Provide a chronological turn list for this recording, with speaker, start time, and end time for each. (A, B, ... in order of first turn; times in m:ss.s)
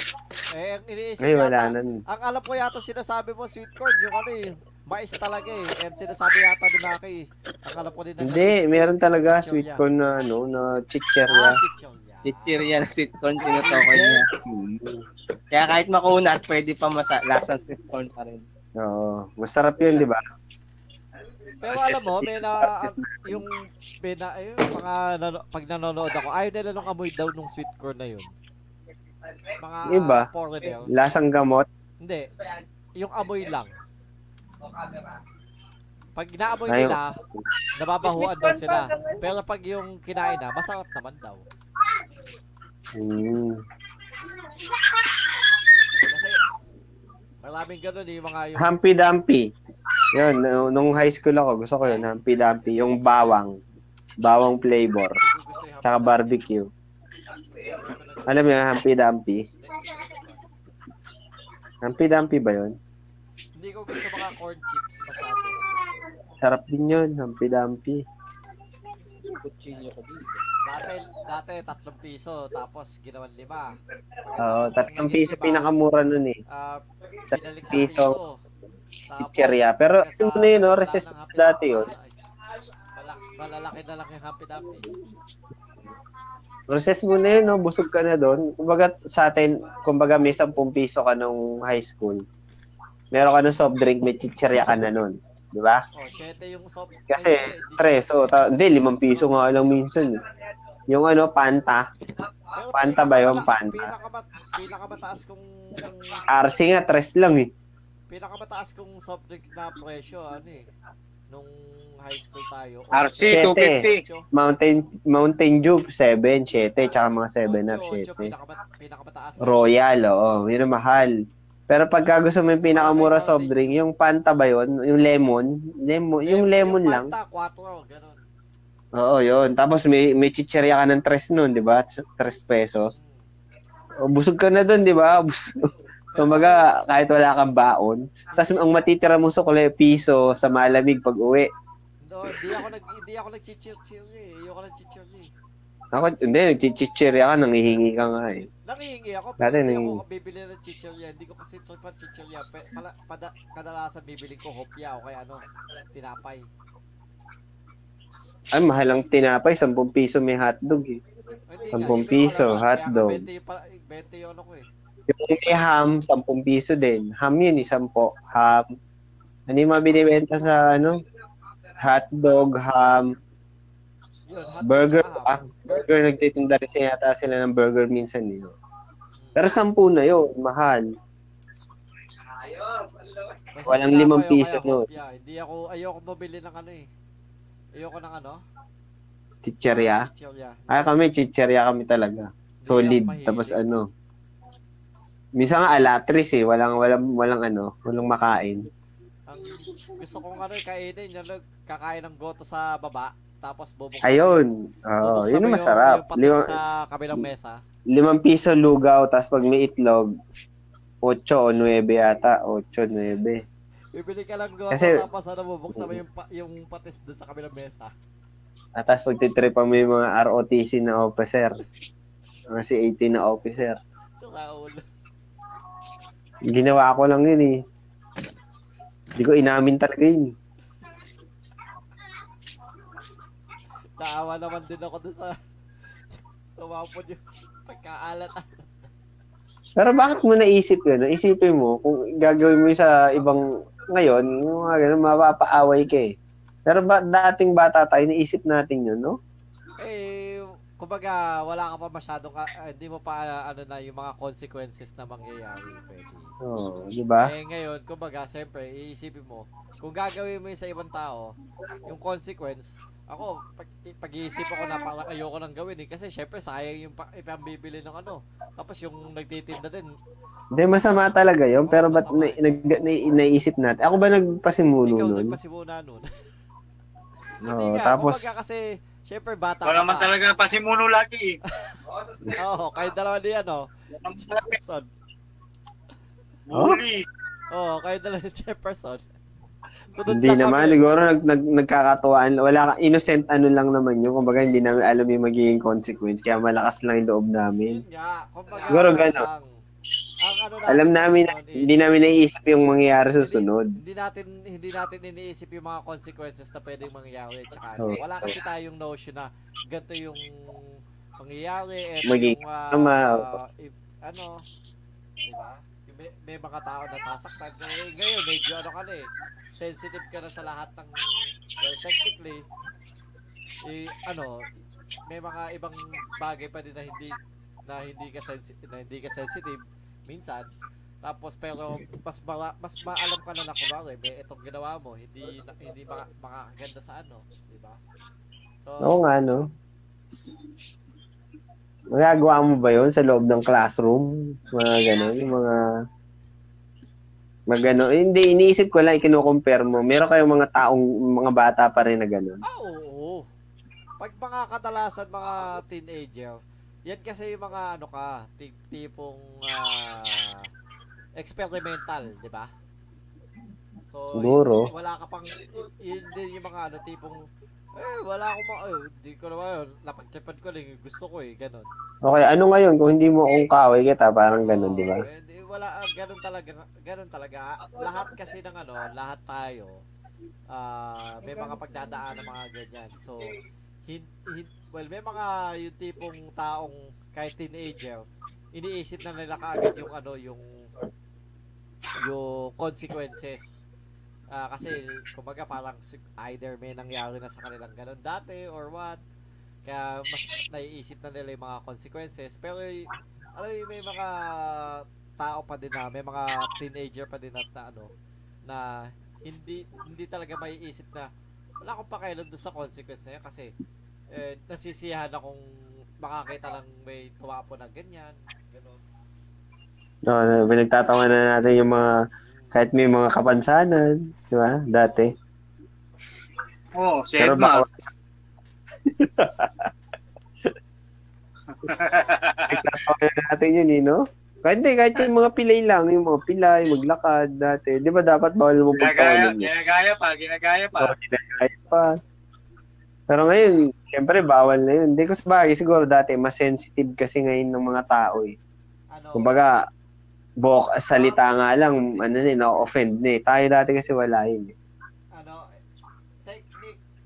0:00.5-0:09.8 A
0:01.2-0:02.0 B
0:08.2-0:11.6 B
0:11.3-0:12.8 A
0:12.2-0:14.2 C
0:13.6-0:14.2 A
0:14.4-0:15.0 B
0:15.5-0:18.4 C
0:18.8-0:20.2 B
0:21.6-0:28.3 A
0:21.6-0:23.4 B
0:29.6-0:30.9 A
0:29.9-0:30.3 B
0:30.9-0:31.7 B
0:32.0-0:32.3 A
0:33.0-0:33.7 A
0:34.7-0:35.2 C
0:36.1-0:37.2 A
0:36.7-0:37.0 B
0:37.8-0:41.4 A
0:38.0-0:39.2 C
0:42.9-0:43.6 B
0:46.0-0:46.4 A
0:47.4-0:48.7 A
0:48.6-0:49.5 B
0:50.1-0:53.6 B
0:51.8-0:53.4 A
0:54.2-0:55.2 B
0:55.2-0:56.4 A
0:55.8-0:56.7 B
0:57.5-0:58.6 A
0:58.2-0:59.4 B
0:59.6-1:00.4 A
1:01.8-1:02.8 B
1:03.6-1:05.6 A
1:06.4-1:08.0 B
1:09.3-1:10.4 C
1:10.6-1:15.7 A
1:14.4-1:16.4 B
1:16.5-1:18.4 A
1:17.3-1:18.2 B
1:19.1-1:22.1 A
1:19.2-1:21.9 B
1:22.9-1:24.9 A
1:26.7-1:32.2 B
1:33.1-1:35.8 B
1:35.9-1:38.4 A
1:37.1-1:40.2 B
1:39.1-1:40.4 A
1:40.9-1:41.9 B
1:42.5-1:46.3 A
1:42.7-1:43.9 B
1:46.3-1:47.5 B
1:48.1-1:50.7 A
1:51.3-1:54.2 A
1:52.9-1:54.0 D
1:53.3-1:58.3 B
1:56.8-1:59.7 A
1:59.4-2:01.2 B
2:01.7-2:07.1 B
2:02.7-2:03.8 A
2:06.2-2:08.2 A
2:09.0-2:12.9 B
2:12.9-2:13.3 A
2:14.0-2:21.5 B
2:16.1-2:16.7 A
2:18.3-2:18.7 A
2:22.0-2:25.3 A
2:25.9-2:28.5 B
2:28.6-2:36.5 A
2:29.4-2:30.0 B
2:38.5-2:41.0 B
2:41.5-2:44.6 A
2:41.7-2:43.2 B
2:45.1-2:48.7 B
2:49.5-2:51.0 B
2:51.8-2:53.1 B
2:54.3-2:56.0 A
2:54.6-2:58.5 B
2:59.2-2:59.5 A
2:59.4-3:00.9 B
3:03.5-3:06.8 A
3:03.6-3:04.8 B
3:07.7-3:08.4 A
3:09.4-3:10.1 B
3:09.6-3:10.9 A
3:10.7-3:13.9 B
3:12.6-3:13.6 A
3:15.4-3:18.7 B
3:19.3-3:24.4 A
3:24.0-3:26.5 B
3:25.0-3:27.6 A
3:27.9-3:30.2 B
3:31.0-3:33.4 B
3:33.9-3:37.9 A
3:34.7-3:35.0 B
3:38.8-3:41.5 B
3:42.5-3:43.8 B
3:44.2-3:44.8 A
3:46.5-3:47.6 B
3:49.2-3:50.3 B
3:54.0-3:55.4 A
3:56.1-3:58.9 A
3:59.8-4:06.1 B
4:06.7-4:09.2 B
4:09.8-4:16.3 A
4:16.4-4:17.3 B
4:17.2-4:21.3 A
4:21.8-4:30.0 A
4:30.6-4:35.3 B
4:31.6-4:32.4 A
4:34.8-4:36.1 A
4:37.4-4:38.4 B
4:37.4-4:40.1 A
4:39.6-4:41.3 D
4:42.3-4:43.7 A
4:44.0-4:44.6 D
4:44.5-4:44.9 A
4:46.5-4:47.0 D
4:46.5-4:46.8 B
4:47.5-4:49.0 A
4:49.9-4:50.8 A
4:50.1-4:57.8 B
4:57.7-4:59.4 A
4:58.7-4:59.2 B
5:00.2-5:01.9 A
5:00.7-5:03.7 B
5:03.2-5:14.4 A
5:07.8-5:08.3 B
5:12.0-5:13.3 B
5:15.2-5:21.1 A
5:21.6-5:22.4 A
5:23.6-5:24.4 A
5:25.1-5:30.5 A
5:31.0-5:37.8 A
5:38.6-5:39.0 A
5:38.8-5:39.4 B
5:41.9-5:45.6 B
5:47.5-5:52.4 B
5:52.4-5:53.3 A
5:54.0-6:00.5 A
6:01.2-6:02.5 A
6:03.9-6:11.7 A
6:04.2-6:04.7 B
6:12.0-6:15.0 B
6:14.4-6:19.8 A
6:20.5-6:30.7 A
6:32.0-6:33.6 A
6:34.3-6:39.0 A
6:39.6-6:47.9 A
6:48.5-6:48.7 A
6:49.2-6:51.1 A
6:51.6-6:53.5 A
6:54.1-6:55.4 A
6:56.0-6:58.8 A
7:00.1-7:01.9 B
7:02.2-7:02.6 A
7:02.5-7:05.1 B
7:06.7-7:07.6 D
7:07.2-7:07.8 B
7:08.9-7:09.7 B
7:11.5-7:12.6 D
7:12.5-7:19.5 B
7:18.8-7:20.9 D
7:20.8-7:22.0 B
7:23.1-7:28.4 B
7:28.9-7:29.3 A
7:29.2-7:29.6 B
7:30.4-7:34.5 B
7:35.1-7:35.4 A
7:36.2-7:36.8 A